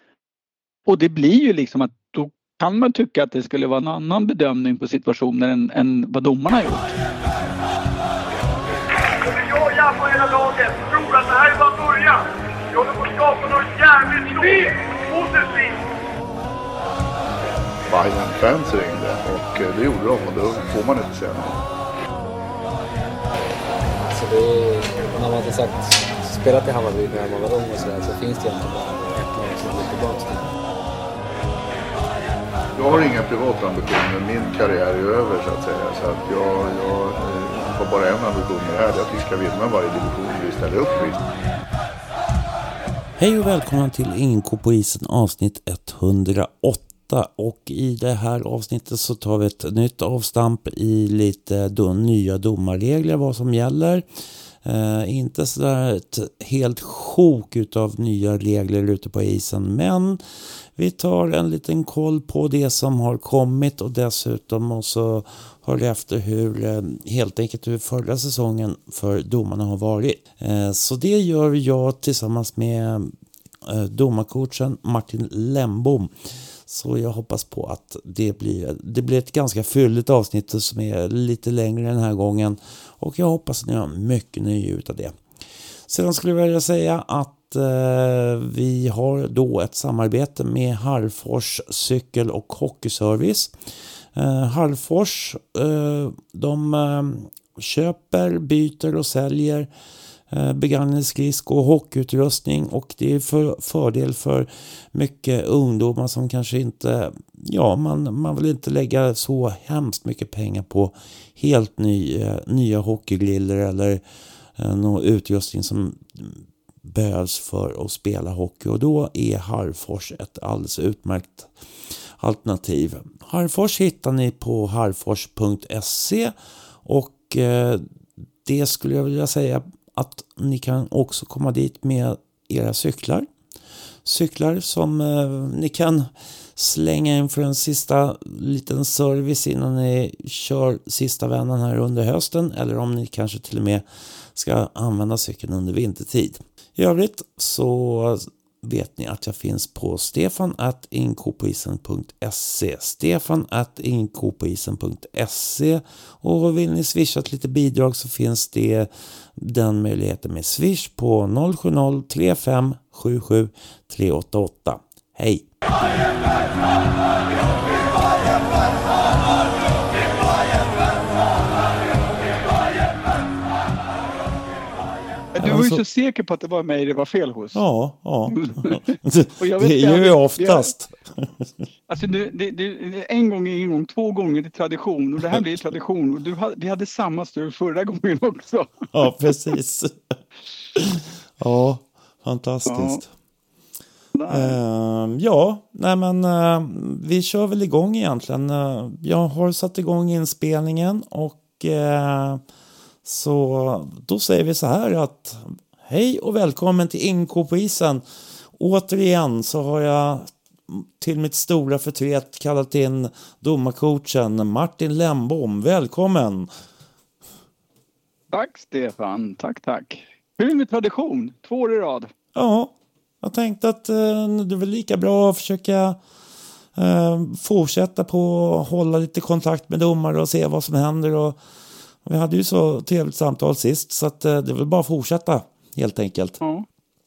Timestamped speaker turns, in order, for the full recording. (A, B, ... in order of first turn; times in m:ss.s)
0:00.9-0:07.0 A
0:09.2-0:15.8 B
0:17.9-0:21.6 C
0:24.1-0:30.6 D
0:32.8-0:41.3 C
0:43.2-0:54.0 E
0:54.6-1:00.2 E
1:00.7-1:13.1 E
1:13.6-1:25.1 E
1:25.9-1:33.5 E
1:34.1-1:39.7 E
1:40.3-1:54.0 E
1:54.6-2:01.5 E
2:02.2-2:07.8 E
2:08.4-2:13.3 E
2:14.0-2:45.4 E
2:55.3-2:57.6 A
2:55.4-2:55.8 E
2:57.5-3:01.3 E
2:58.3-3:00.7 A
3:01.9-3:08.9 A
3:08.9-3:09.9 E
3:10.7-3:13.1 E
3:12.6-3:13.0 A
3:14.1-3:14.6 A
3:14.3-3:22.4 E
3:23.0-3:28.0 E
3:28.6-3:36.5 E
3:38.3-3:42.1 A
3:42.3-3:46.0 E
3:46.8-3:51.4 E
3:52.0-3:56.4 E